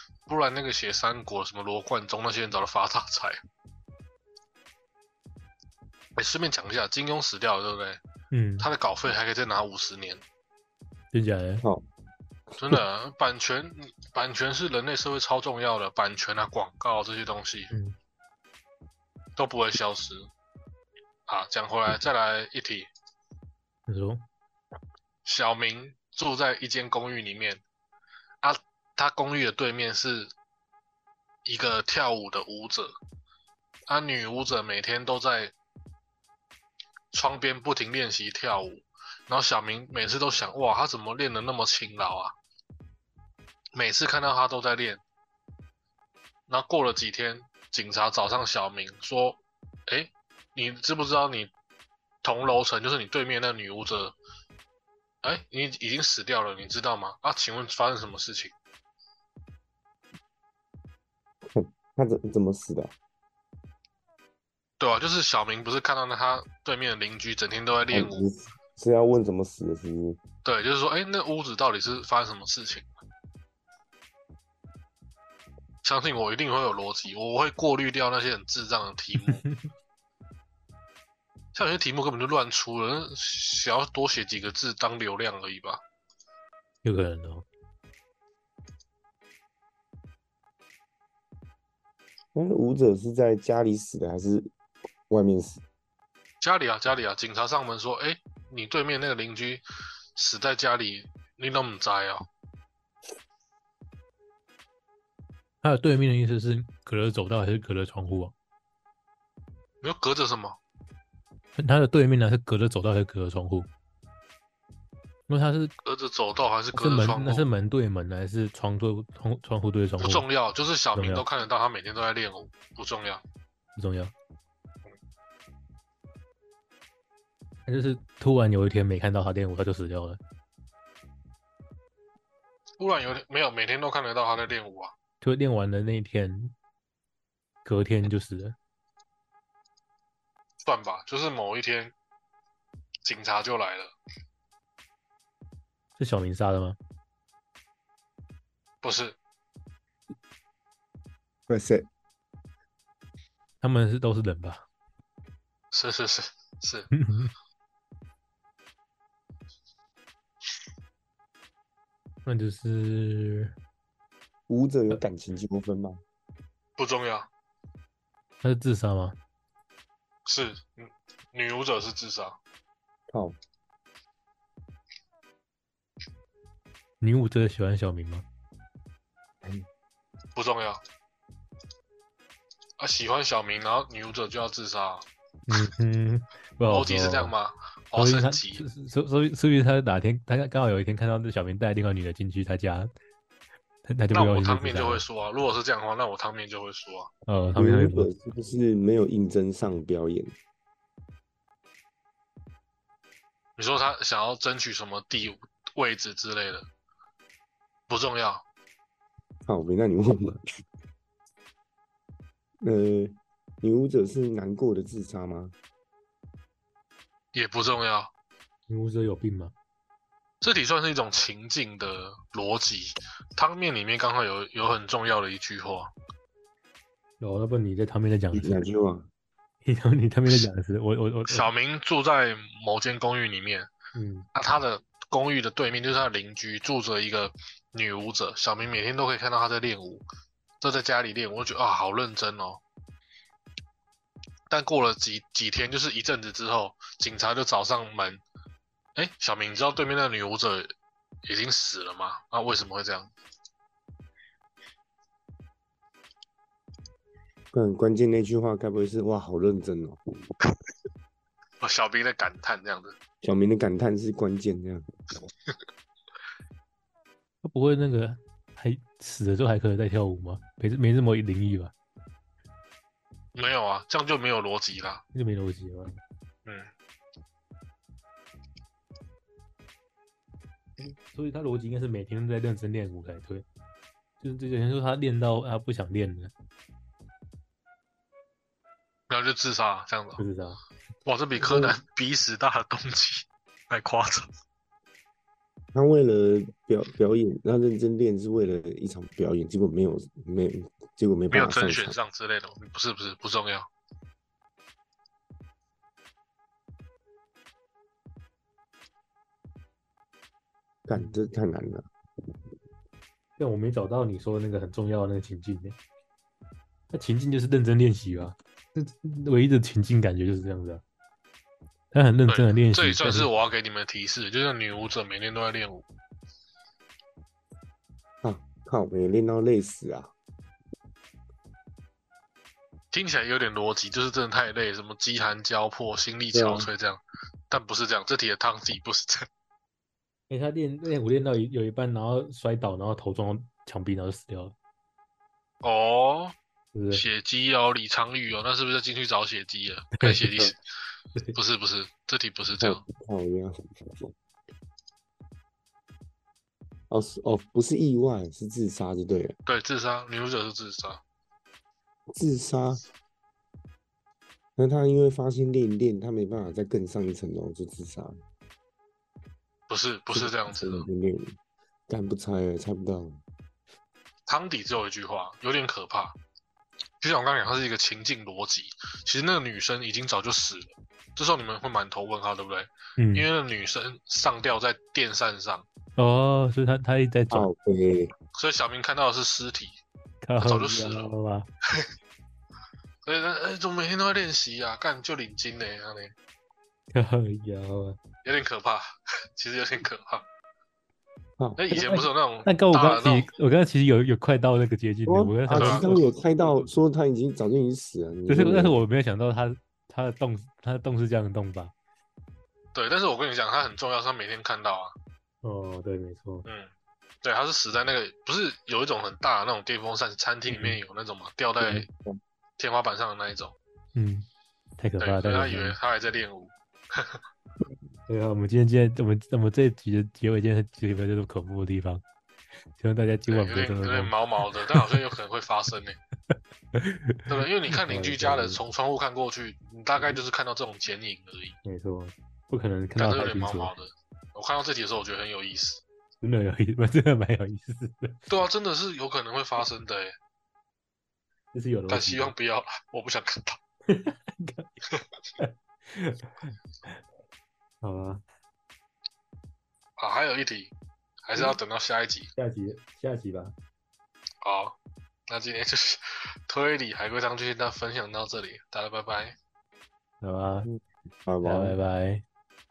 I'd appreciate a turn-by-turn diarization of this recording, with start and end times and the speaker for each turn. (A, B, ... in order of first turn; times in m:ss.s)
0:00.3-0:03.4 A
0:06.2-0:08.0 A
0:08.3-0:08.7 B
0:08.6-0:10.2 A
0:11.1-0:11.6 B
0:12.6-0:17.7 A
0:19.4-0:20.3 A
0:21.3-0:22.9 A
0:23.9-0:24.2 B
0:25.2-0:27.6 A
0:28.4-0:30.3 A
0:31.4-0:32.9 A
0:33.9-0:35.5 A
0:37.1-0:42.3 A
0:43.7-0:45.0 A
0:46.5-0:51.5 A
0:52.2-0:54.2 A
0:55.2-0:58.5 A
1:01.5-1:02.9 C
1:04.8-1:08.2 A
1:07.9-1:10.2 C
1:10.4-1:12.9 A
1:15.8-1:19.4 A
1:19.3-1:19.6 B
1:21.5-1:25.8 A
1:26.8-1:27.4 B
1:32.3-1:34.5 C
1:35.1-1:35.6 C
1:36.4-1:39.6 A
1:40.1-1:42.3 A
1:45.6-1:48.3 B
1:49.8-1:50.6 A
1:51.6-1:53.7 B
1:55.3-1:55.7 B
1:55.8-1:57.4 A
1:56.7-2:00.2 B
2:00.0-2:03.2 A
2:00.9-2:01.2 B
2:03.8-2:04.1 B
2:07.6-2:10.2 B
2:12.8-2:14.9 A
2:15.2-2:16.5 B
2:17.6-2:18.6 B
2:20.6-2:21.9 A
2:23.0-2:23.9 A
2:26.0-2:26.8 B
2:28.8-2:29.2 A
2:31.5-2:31.9 C
2:33.6-2:34.6 B
2:35.7-2:36.9 A
2:36.9-2:37.3 B
2:42.2-2:43.5 B
2:44.5-2:46.0 C
2:46.8-2:47.3 A
2:48.4-2:49.2 B
2:50.3-2:52.4 A
2:53.1-2:53.4 C
2:57.0-2:58.2 B
3:00.4-3:00.8 A
3:02.8-3:05.0 A
3:05.5-3:07.3 B
3:06.6-3:08.6 A
3:08.0-3:12.9 B
3:13.8-3:15.0 B
3:14.1-3:17.1 A
3:17.3-3:18.1 B
3:17.6-3:20.3 C
3:23.6-3:26.7 A
3:27.9-3:28.4 A
3:29.5-3:30.4 C
3:32.6-3:35.5 C
3:37.3-3:38.1 A
3:38.7-3:39.5 B
3:40.4-3:45.9 A
3:47.2-3:48.6 B
3:48.3-3:49.1 C
3:49.6-3:51.5 B
3:51.3-3:53.7 A
3:53.9-3:54.3 B
3:54.3-4:00.0 A
4:00.6-4:02.6 A
4:04.5-4:08.2 A
4:09.0-4:10.7 A
4:11.2-4:13.1 A
4:17.5-4:20.0 C
4:21.6-4:23.0 A
4:23.2-4:24.8 C
4:27.4-4:31.7 B
4:33.3-4:35.0 A
4:35.1-4:35.9 B
4:36.4-4:36.7 A
4:40.8-4:43.4 B
4:44.2-4:46.3 B
4:49.1-4:50.2 A
4:50.2-4:50.6 B
4:51.0-4:54.3 A
4:51.4-4:51.8 C
4:55.7-5:02.0 C
5:01.3-5:03.7 A
5:10.9-5:11.9 C
5:13.4-5:15.8 B
5:16.9-5:20.8 B
5:21.9-5:23.3 B
5:22.3-5:25.8 A
5:28.2-5:30.1 C
5:32.9-5:39.3 A
5:36.3-5:36.7 C
5:40.3-5:44.5 B
5:45.6-5:46.3 A
5:46.7-5:47.0 B
5:46.9-5:50.6 A
5:50.0-5:50.4 B
5:51.3-5:52.8 A
5:52.6-5:54.1 C
5:56.9-5:59.3 C
5:59.5-6:01.0 A
6:02.1-6:02.8 C
6:04.6-6:08.2 C
6:09.7-6:10.9 A
6:10.1-6:11.3 C
6:11.9-6:13.2 C
6:14.3-6:16.2 A
6:17.0-6:25.6 A
6:23.0-6:23.3 B
6:26.0-6:27.5 B
6:27.3-6:28.1 C
6:28.3-6:29.8 A
6:30.2-6:31.5 B
6:30.4-6:31.1 A
6:33.0-6:36.1 A
6:36.9-6:38.0 B
6:38.2-6:40.2 A
6:41.6-6:43.3 A
6:41.7-6:46.0 B
6:45.1-6:48.8 C
6:45.6-6:45.9 A
6:48.3-6:51.7 B
6:52.7-6:54.9 A
6:55.4-6:56.5 B
6:57.2-7:01.9 A
7:00.5-7:00.8 B
7:01.8-7:02.2 C
7:02.6-7:03.6 A
7:03.9-7:05.8 B
7:05.0-7:07.2 A
7:08.1-7:12.0 B
7:12.8-7:14.9 B
7:13.3-7:16.0 A
7:16.3-7:18.6 B
7:17.3-7:21.6 A
7:21.6-7:23.7 B
7:23.0-7:25.8 A
7:26.2-7:28.3 B
7:28.3-7:30.1 A
7:31.5-7:32.3 B
7:31.9-7:33.6 A
7:33.9-7:34.7 B
7:35.4-7:37.0 B
7:37.8-7:38.2 B
7:40.0-7:42.3 A
7:42.4-7:43.5 B
7:44.4-7:44.7 A
7:45.3-7:49.3 A
7:50.2-7:50.7 B
7:50.6-7:51.8 C
7:51.4-7:52.2 B